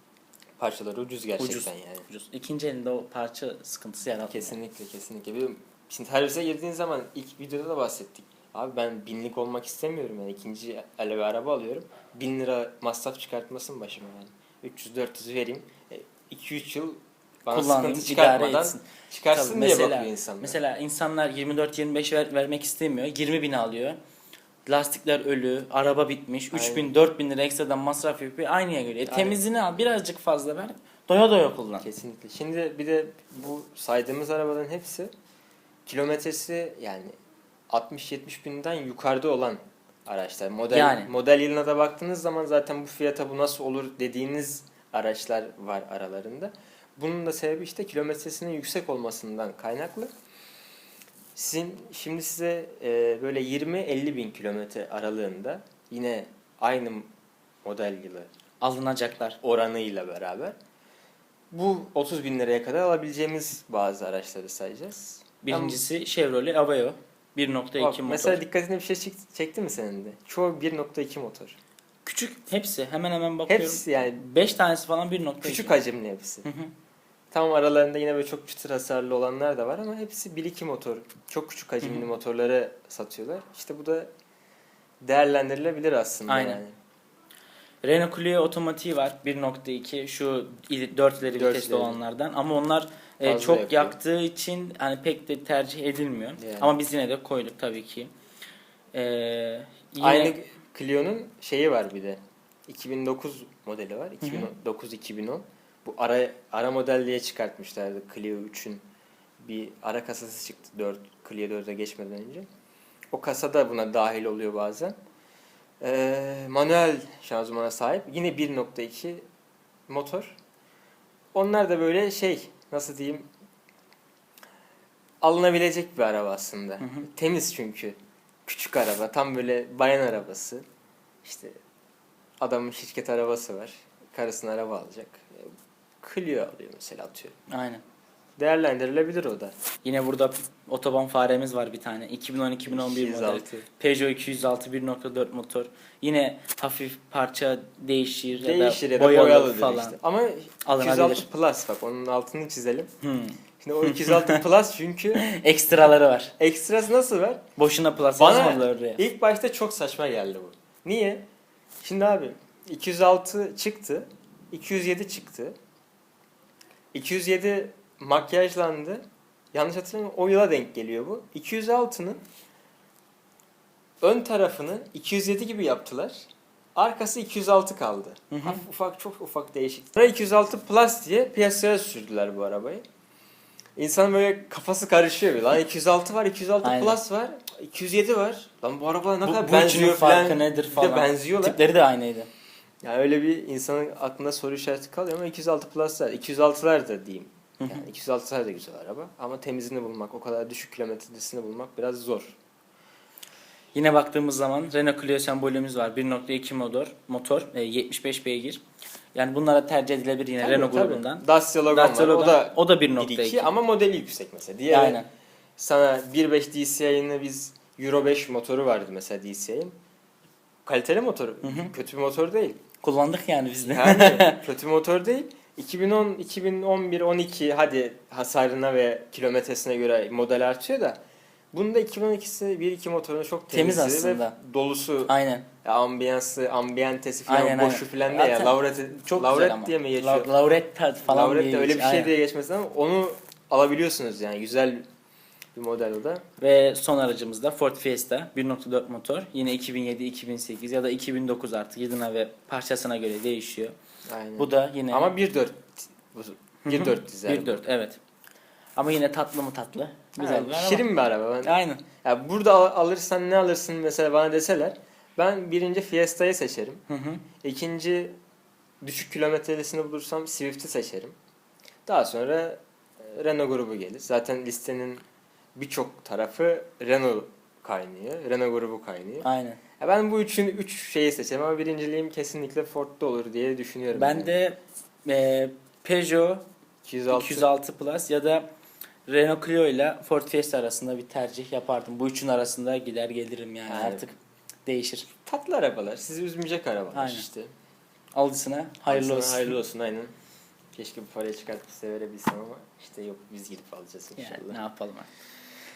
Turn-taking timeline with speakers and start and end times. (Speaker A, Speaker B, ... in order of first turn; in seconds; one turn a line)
Speaker A: 0.6-2.1
Speaker B: 1.4-4.6
Speaker A: 4.2-20.6
Speaker B: 17.5-24.0
Speaker B: 24.7-31.9
Speaker A: 26.5-26.9
Speaker A: 29.1-29.4
Speaker A: 31.8-35.1
Speaker A: 35.9-37.1
Speaker A: 37.7-50.1
Speaker B: 40.7-41.1
Speaker A: 51.3-57.1
Speaker A: 57.6-58.3
Speaker B: 58.6-59.4
Speaker A: 59.4-60.5
Speaker A: 61.5-65.8
Speaker B: 65.4-68.4
Speaker A: 67.8-71.5
Speaker B: 72.0-75.7
Speaker A: 73.5-74.2
Speaker A: 75.4-76.5
Speaker B: 76.4-76.7
Speaker A: 77.3-84.1
Speaker B: 81.8-82.1
Speaker A: 85.0-86.7
Speaker B: 86.3-86.6
Speaker B: 87.8-98.1
Speaker A: 91.3-92.0
Speaker A: 93.2-94.0
Speaker A: 96.4-96.8
Speaker B: 98.9-100.3
Speaker A: 100.0-108.8
Speaker B: 104.2-104.5
Speaker A: 109.4-112.5
Speaker A: 113.1-114.9
Speaker A: 115.8-119.2
Speaker A: 119.9-120.3
Speaker A: 121.3-123.3
Speaker A: 125.2-130.6
Speaker B: 126.8-127.1
Speaker A: 131.2-131.6
Speaker A: 132.4-137.4
Speaker B: 137.5-137.8
Speaker A: 138.4-139.5
Speaker B: 139.8-150.0
Speaker A: 142.7-143.7
Speaker A: 148.3-152.9
Speaker B: 150.6-151.3
Speaker B: 153.0-154.4
Speaker A: 153.6-155.2
Speaker B: 155.2-156.3
Speaker A: 156.4-157.4
Speaker B: 157.6-159.0
Speaker A: 158.2-161.2
Speaker A: 161.8-165.5
Speaker A: 166.9-172.2
Speaker A: 174.0-182.8
Speaker B: 178.3-178.6
Speaker A: 183.8-191.6
Speaker B: 186.6-187.0
Speaker B: 189.2-192.3
Speaker A: 192.8-202.4
Speaker B: 197.6-197.8
Speaker B: 203.7-208.6
Speaker B: 209.1-213.5
Speaker A: 210.4-215.0
Speaker B: 214.7-215.1
Speaker A: 215.6-219.7
Speaker A: 220.7-222.6
Speaker B: 221.4-221.7
Speaker B: 222.8-224.4
Speaker A: 223.6-231.0
Speaker A: 231.5-235.1
Speaker B: 233.5-234.3
Speaker B: 235.1-235.4
Speaker A: 235.6-240.3
Speaker B: 237.3-242.1
Speaker A: 241.1-244.8
Speaker A: 245.5-246.2
Speaker B: 246.4-253.7
Speaker A: 254.1-257.6
Speaker B: 254.4-255.1
Speaker B: 256.6-258.0
Speaker B: 258.8-260.9
Speaker A: 260.2-266.8
Speaker B: 261.4-261.8
Speaker B: 266.9-267.2
Speaker A: 267.4-268.1
Speaker A: 268.8-271.1
Speaker A: 271.9-275.0
Speaker A: 275.5-279.2
Speaker B: 279.2-279.6
Speaker A: 279.8-284.3
Speaker B: 283.9-286.4
Speaker A: 286.8-287.5
Speaker B: 287.1-288.5
Speaker B: 289.1-295.1
Speaker A: 293.7-294.1
Speaker A: 295.2-297.5
Speaker B: 296.9-297.2
Speaker B: 298.1-299.6
Speaker A: 298.9-300.1
Speaker A: 300.7-304.6
Speaker B: 304.2-305.1